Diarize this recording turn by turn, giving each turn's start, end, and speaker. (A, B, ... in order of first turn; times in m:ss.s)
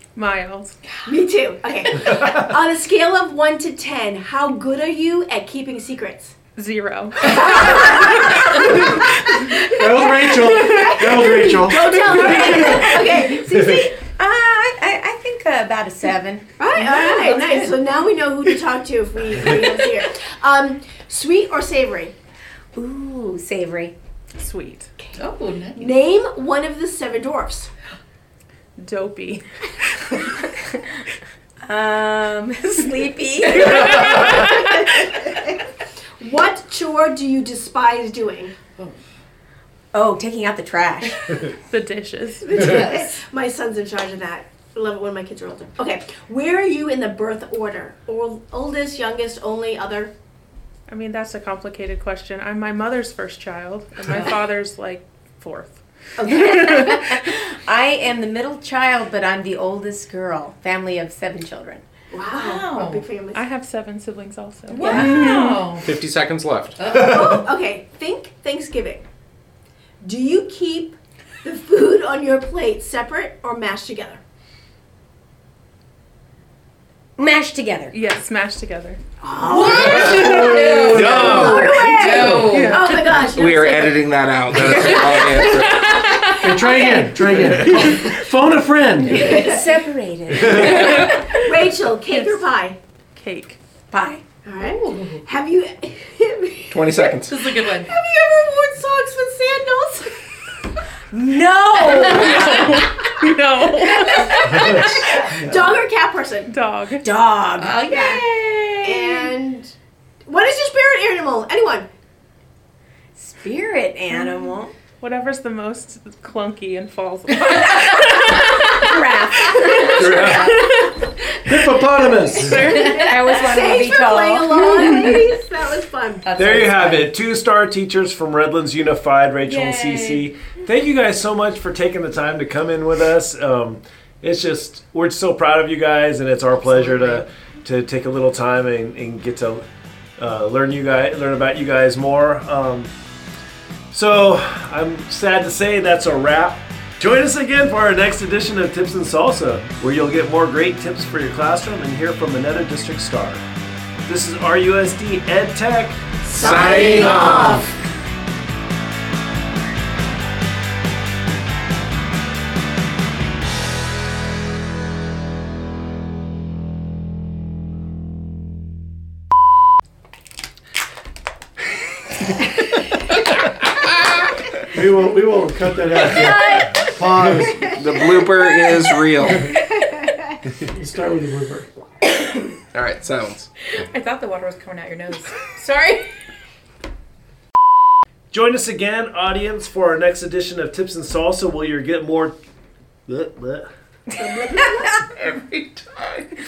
0:00.2-0:00.8 A
0:01.0-0:06.3 B
0:06.6-0:07.9 A
0:07.2-0:14.0 B
0:09.7-0:12.8 C
0:12.3-0:13.2 D
0:14.0-0:17.7 D
0:16.6-0:22.1 B
0:22.7-0:24.0 D
0:24.4-0:24.9 A
0:25.2-0:25.9 E
0:25.7-0:27.7 B
0:28.8-0:29.4 A
0:30.2-0:30.8 D
0:31.6-0:35.1 D
0:34.1-0:35.6 B
0:36.2-0:38.5 B
0:39.9-0:41.5 D
0:41.7-0:42.8 A
0:42.4-0:50.1 B
0:42.5-0:43.1 E
0:50.9-0:56.9 A
0:56.2-0:56.9 B
0:56.2-1:01.8 D
1:02.1-1:03.4 B
1:02.3-1:03.0 E
1:03.3-1:05.6 A
1:04.7-1:05.2 B
1:04.8-1:05.9 E
1:04.8-1:05.1 D
1:05.0-1:06.8 F
1:06.8-1:07.2 E
1:06.8-1:09.0 B
1:10.0-1:14.2 B
1:17.2-1:17.9 D
1:17.9-1:19.0 A
1:19.2-1:25.8 B
1:19.2-1:20.0 D
1:19.5-1:23.1 E
1:20.1-1:21.2 C
1:20.9-1:21.9 G
1:21.2-1:21.8 D
1:21.9-1:26.0 F
1:22.4-1:22.8 A
1:25.7-1:26.4 A
1:26.4-1:29.4 C
1:29.2-1:29.8 B
1:29.2-1:31.4 D
1:30.3-1:32.8 B
1:32.1-1:32.4 A
1:33.2-1:33.6 A
1:33.9-1:34.2 D
1:34.4-1:40.6 B
1:34.6-1:35.2 E
1:36.7-1:37.3 F
1:37.2-1:37.9 E
1:41.1-1:42.8 D
1:41.9-1:46.5 B
1:42.1-1:45.1 A
1:46.5-1:47.1 A
1:47.0-1:47.8 D
1:47.6-1:49.3 E
1:47.8-1:48.2 B
1:48.8-1:49.7 B
1:50.2-1:51.9 B
1:53.2-1:54.7 D
1:54.2-1:54.5 A
1:55.0-1:58.8 A
1:57.4-2:00.8 D
1:59.5-2:00.9 A
1:59.9-2:00.5 G
2:01.4-2:02.8 C
2:02.4-2:06.4 B
2:02.4-2:02.9 A
2:02.6-2:02.8 E
2:03.0-2:05.3 D
2:06.2-2:07.1 E
2:06.4-2:19.6 G
2:09.5-2:10.2 E
2:16.5-2:17.2 E
2:20.2-2:22.9 G
2:23.9-2:33.4 G
2:34.1-2:36.3 G
2:36.3-2:37.7 F
2:36.3-2:37.8 B
2:36.8-2:37.2 C
2:54.7-2:57.8 C
2:56.1-2:56.7 B
2:57.7-2:59.5 F
3:00.7-3:01.7 C
3:02.7-3:03.5 F
3:03.7-3:06.1 E
3:08.3-3:12.4 G
3:13.1-3:13.7 G
3:14.4-3:14.6 B
3:14.6-3:14.9 D